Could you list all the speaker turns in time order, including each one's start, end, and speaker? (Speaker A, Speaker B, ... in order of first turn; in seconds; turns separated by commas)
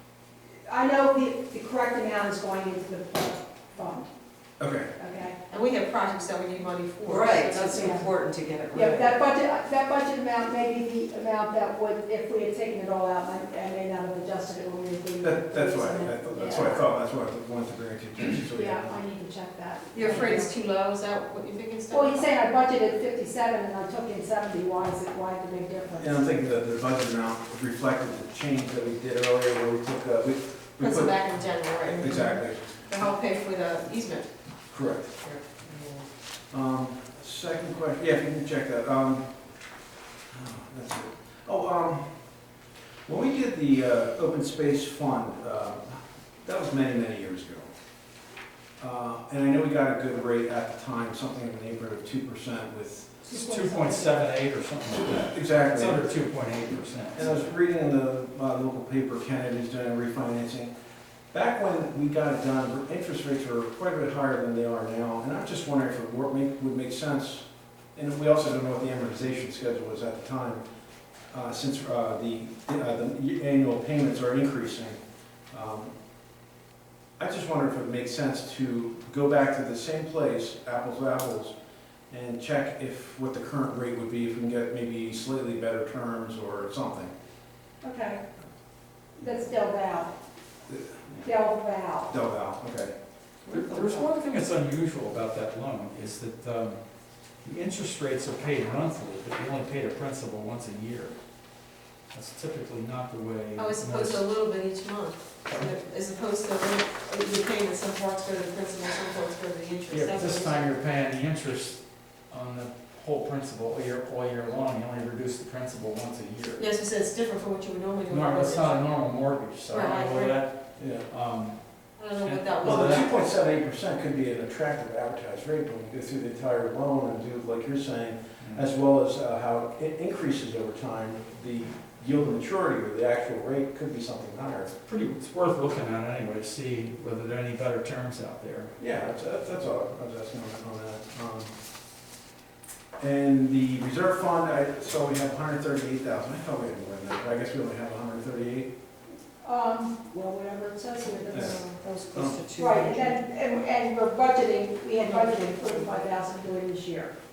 Speaker A: 0.7-4.1, Speaker B: 4.6-4.9, Speaker A: 5.0-5.3, Speaker C: 5.5-8.1, Speaker D: 7.0-9.1, Speaker A: 8.7-16.8, Speaker B: 15.2-18.9, Speaker A: 18.5-20.5, Speaker C: 19.9-22.3, Speaker A: 21.9-26.2, Speaker B: 26.0-32.8, Speaker C: 30.8-34.3, Speaker B: 34.7-35.1, Speaker C: 35.2-36.0, Speaker B: 36.5-39.7, Speaker B: 40.3-47.7, Speaker B: 48.8-53.1, Speaker A: 53.2-54.1, Speaker E: 53.3-57.5, Speaker B: 55.3-56.0, Speaker B: 57.1-60.7, Speaker B: 61.3-70.6, Speaker B: 71.3-75.0, Speaker B: 75.5-75.9, Speaker B: 77.2-81.5, Speaker B: 82.1-87.1, Speaker A: 87.8-88.2, Speaker A: 89.2-90.1, Speaker B: 90.7-91.0, Speaker A: 91.2-92.1, Speaker B: 92.1-92.9, Speaker D: 93.5-94.0, Speaker E: 93.5-96.8, Speaker E: 97.4-101.2, Speaker E: 102.1-104.2, Speaker C: 103.5-110.8, Speaker E: 109.9-116.6, Speaker C: 116.6-118.8, Speaker E: 118.1-123.0, Speaker C: 119.7-120.4, Speaker B: 120.8-121.1, Speaker C: 122.0-123.1, Speaker B: 122.6-134.7, Speaker E: 128.4-128.7, Speaker E: 134.8-138.7, Speaker B: 138.8-141.5, Speaker B: 143.0-148.7, Speaker A: 149.4-151.7, Speaker B: 151.3-152.4, Speaker D: 151.3-153.2, Speaker A: 152.6-157.1, Speaker D: 155.1-155.9